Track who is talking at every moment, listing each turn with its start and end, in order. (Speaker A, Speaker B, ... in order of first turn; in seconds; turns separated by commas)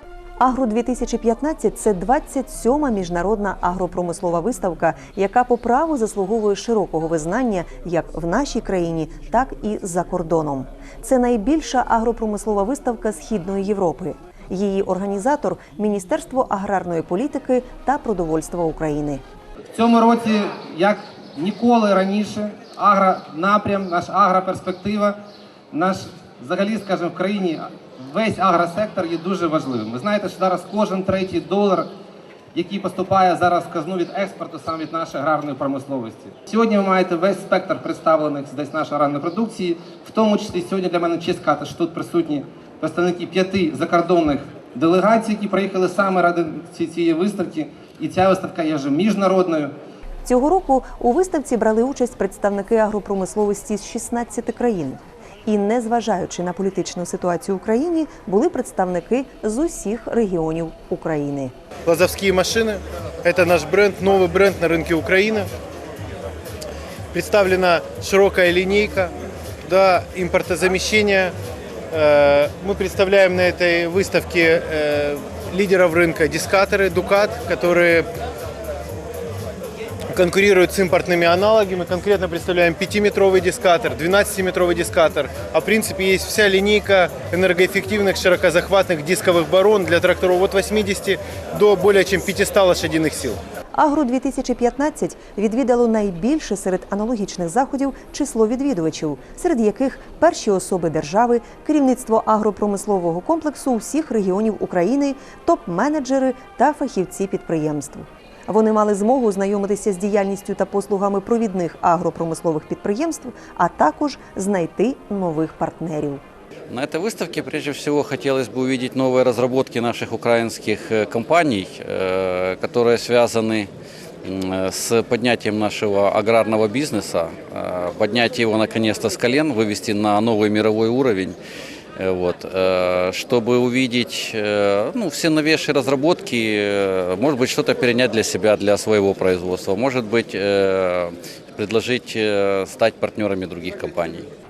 Speaker A: 0.4-19.2, Speaker B: 19.8-25.2, Speaker B: 25.7-31.9, Speaker B: 32.5-49.7, Speaker A: 50.2-61.5, Speaker C: 61.9-65.5, Speaker C: 67.1-69.1, Speaker C: 69.7-71.3, Speaker C: 71.9-78.1, Speaker C: 80.1-93.4, Speaker A: 93.8-116.2, Speaker D: 116.7-123.7, Speaker D: 124.2-131.4, Speaker D: 132.0-144.3